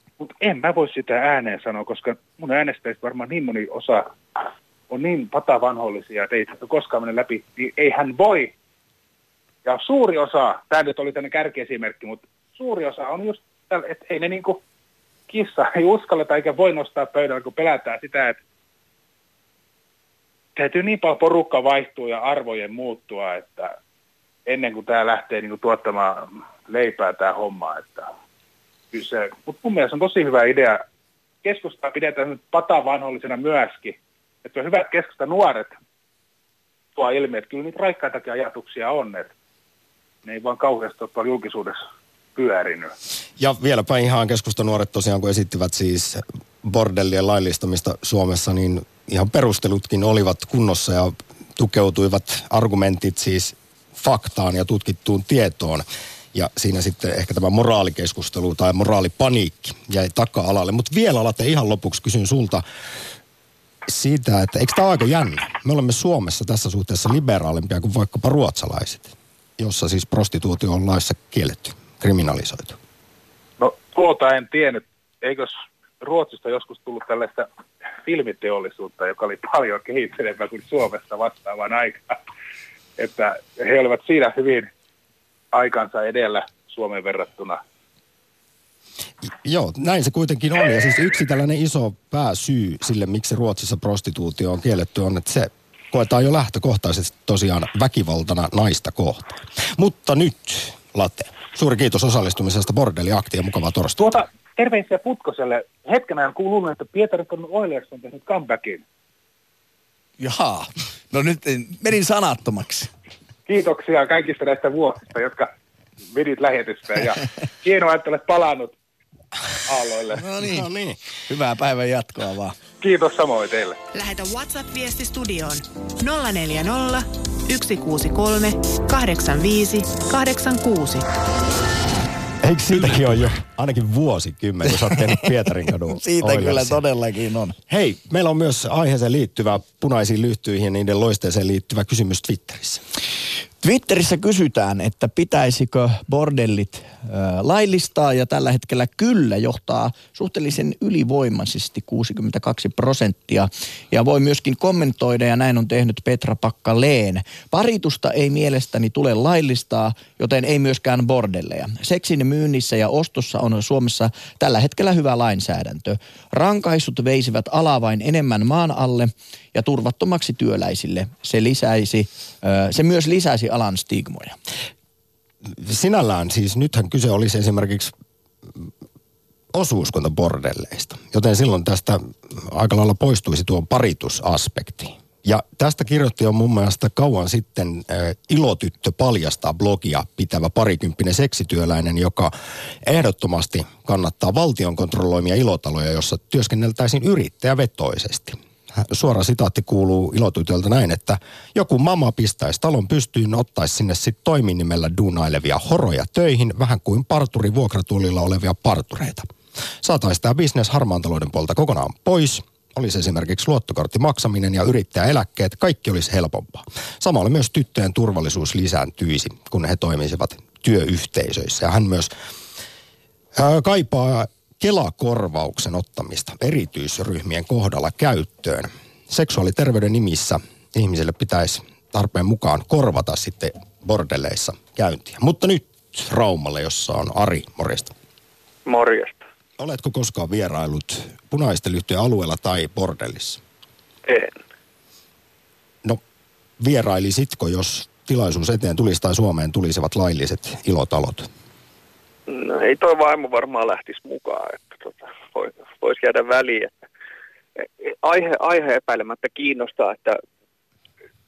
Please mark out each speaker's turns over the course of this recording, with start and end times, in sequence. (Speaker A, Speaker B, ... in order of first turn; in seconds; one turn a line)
Speaker A: 0.2-8.5
Speaker A: 9.6-14.6
Speaker A: 15.3-18.4
Speaker A: 20.6-23.7
Speaker A: 24.5-28.1
Speaker A: 28.9-30.8
Speaker A: 31.4-35.8
Speaker A: 36.9-39.3
Speaker A: 40.2-41.8
Speaker A: 42.4-42.9
Speaker B: 43.4-62.6
Speaker B: 63.9-72.8
Speaker A: 73.6-77.5
Speaker A: 78.0-82.2
Speaker A: 83.0-84.7
Speaker A: 85.5-87.6
Speaker B: 89.4-104.2
Speaker A: 104.0-108.8
Speaker C: 110.2-112.9
Speaker A: 113.5-115.5
Speaker A: 116.1-118.7
Speaker A: 119.6-120.3
Speaker C: 120.2-120.7
Speaker B: 120.4-121.0
Speaker C: 121.3-122.6
Speaker A: 122.8-123.8
Speaker D: 123.9-131.1
Speaker B: 132.4-136.8
Speaker C: 135.9-137.6
Speaker B: 137.7-142.8
Speaker C: 143.6-174.4
Speaker B: 175.4-177.9
Speaker B: 179.5-209.3
Speaker B: 209.8-222.1
Speaker B: 223.3-237.9
Speaker E: 238.6-239.2
Speaker B: 239.6-243.4
Speaker E: 244.1-244.3
Speaker B: 246.6-251.3
Speaker E: 252.3-256.7
Speaker E: 257.8-260.2